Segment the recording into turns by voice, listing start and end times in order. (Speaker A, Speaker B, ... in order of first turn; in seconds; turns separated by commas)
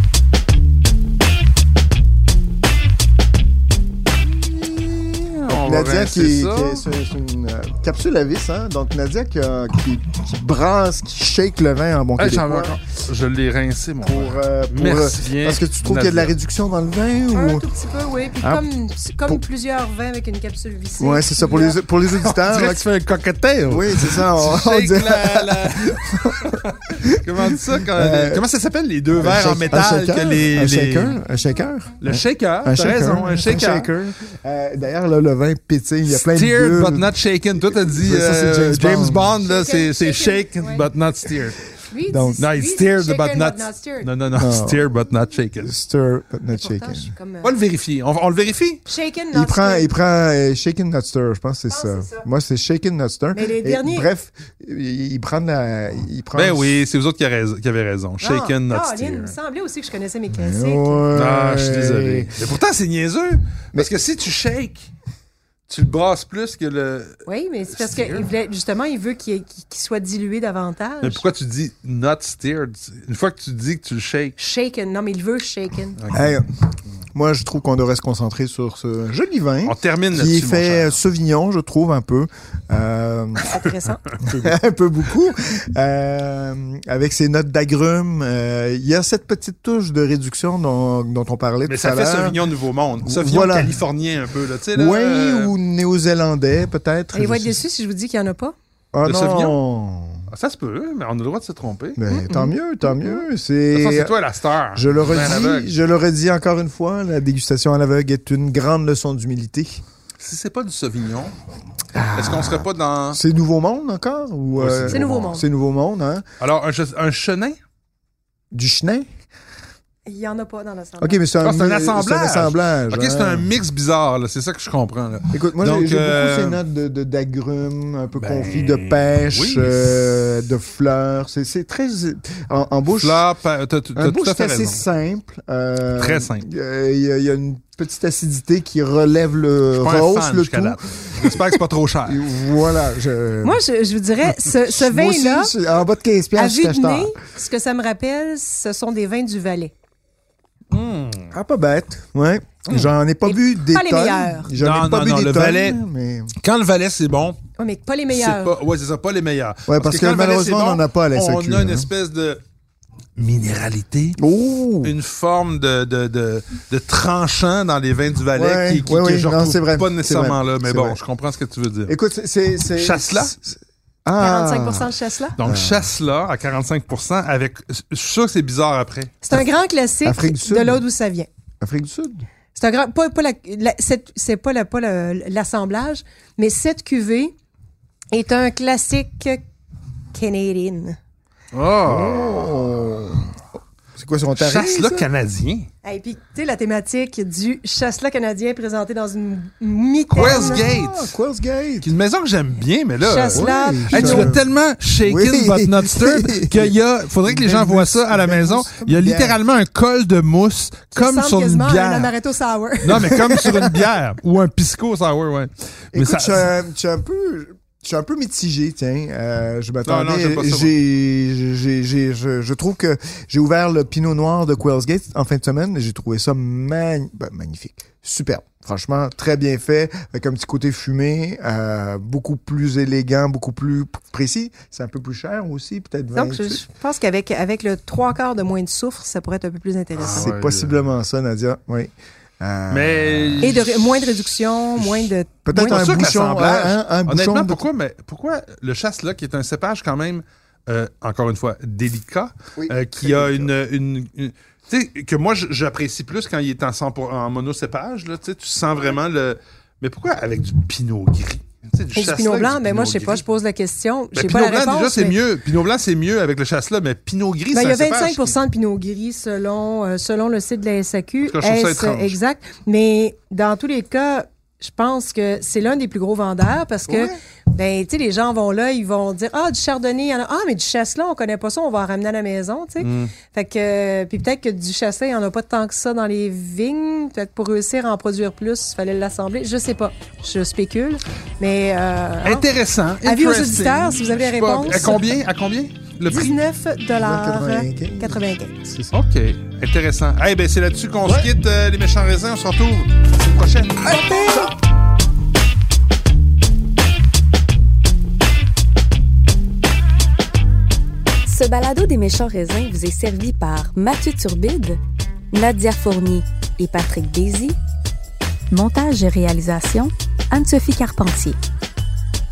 Speaker A: 4.6-12.8, Speaker B: 5.1-6.8, Speaker B: 12.2-16.3, Speaker A: 14.1-17.6, Speaker C: 17.3-21.8, Speaker A: 21.0-22.8, Speaker B: 22.2-31.2, Speaker A: 23.7-28.4, Speaker A: 29.2-39.3, Speaker B: 32.0-33.9, Speaker B: 36.1-41.6, Speaker C: 39.4-40.9, Speaker C: 41.9-44.1, Speaker A: 42.1-42.4, Speaker B: 42.4-45.7, Speaker A: 44.3-44.9, Speaker A: 45.6-47.1, Speaker C: 46.5-47.5, Speaker B: 47.4-48.8, Speaker C: 48.9-49.9, Speaker A: 49.3-56.8, Speaker C: 51.7-52.2, Speaker C: 53.3-54.1, Speaker B: 56.3-59.4, Speaker C: 58.2-61.1, Speaker A: 60.4-62.3, Speaker B: 61.1-64.9, Speaker B: 65.7-68.3, Speaker C: 67.3-71.2, Speaker B: 71.0-74.4, Speaker C: 74.4-76.0, Speaker B: 76.0-76.3, Speaker A: 76.1-76.5, Speaker A: 77.1-83.5, Speaker B: 79.7-81.0, Speaker C: 83.4-84.0, Speaker B: 84.1-84.6, Speaker A: 84.2-92.4, Speaker B: 91.7-95.5, Speaker A: 93.0-93.8, Speaker A: 94.7-97.6, Speaker C: 97.1-98.5, Speaker A: 98.9-100.3, Speaker B: 99.0-99.6, Speaker B: 100.3-102.0, Speaker A: 102.0-104.2, Speaker C: 102.1-102.5, Speaker B: 103.7-105.7, Speaker A: 104.8-109.8, Speaker B: 110.2-111.3, Speaker A: 111.9-116.2, Speaker B: 112.1-113.2, Speaker B: 114.6-115.2, Speaker C: 114.9-115.5, Speaker B: 116.4-117.6, Speaker A: 118.5-119.1, Speaker C: 120.1-121.2, Speaker A: 121.0-123.5, Speaker B: 121.4-126.6, Speaker A: 125.3-133.2, Speaker B: 128.2-129.9, Speaker B: 133.0-134.8, Speaker A: 134.0-141.4, Speaker B: 136.0-136.5, Speaker B: 139.7-142.2, Speaker A: 142.1-143.6, Speaker C: 143.4-145.5, Speaker A: 144.7-147.2, Speaker C: 146.4-149.7, Speaker B: 150.7-151.3, Speaker A: 151.3-156.3, Speaker C: 153.2-154.5, Speaker B: 154.6-155.8, Speaker B: 156.4-157.4, Speaker C: 157.6-158.6, Speaker B: 158.1-162.4, Speaker A: 159.7-161.9, Speaker B: 163.2-164.2, Speaker A: 164.2-164.9, Speaker B: 164.8-171.9, Speaker A: 168.3-171.0, Speaker A: 171.9-175.9, Speaker B: 172.8-173.3, Speaker C: 174.2-175.4, Speaker B: 175.4-179.2, Speaker C: 179.2-181.3, Speaker A: 180.1-180.8, Speaker A: 181.6-182.3, Speaker C: 182.6-187.3, Speaker C: 188.1-189.4, Speaker C: 190.1-191.0, Speaker B: 191.5-192.6, Speaker A: 191.8-193.3, Speaker A: 194.0-195.1, Speaker B: 194.4-195.7, Speaker C: 195.8-200.6, Speaker B: 200.2-201.1, Speaker A: 200.2-201.9, Speaker B: 201.8-212.1, Speaker C: 203.0-204.4, Speaker A: 203.3-204.4, Speaker A: 205.0-209.4, Speaker C: 210.9-213.2, Speaker B: 212.8-216.5, Speaker A: 213.2-213.8, Speaker A: 215.9-236.6, Speaker B: 219.8-220.7, Speaker C: 236.1-240.3, Speaker B: 240.0-240.8, Speaker A: 240.0-243.6, Speaker B: 242.7-263.2, Speaker C: 243.4-245.8, Speaker A: 245.5-247.7, Speaker A: 252.6-253.5, Speaker C: 261.9-265.2, Speaker B: 264.1-268.4, Speaker C: 267.5-292.5, Speaker B: 271.3-272.2, Speaker B: 282.8-283.1, Speaker B: 292.2-296.4, Speaker C: 293.0-295.1, Speaker C: 296.1-298.6, Speaker A: 297.0-298.9, Speaker B: 298.9-304.0, Speaker A: 301.1-301.3, Speaker A: 303.9-304.5, Speaker D: 311.3-314.8, Speaker D: 315.3-317.6, Speaker D: 318.5-321.4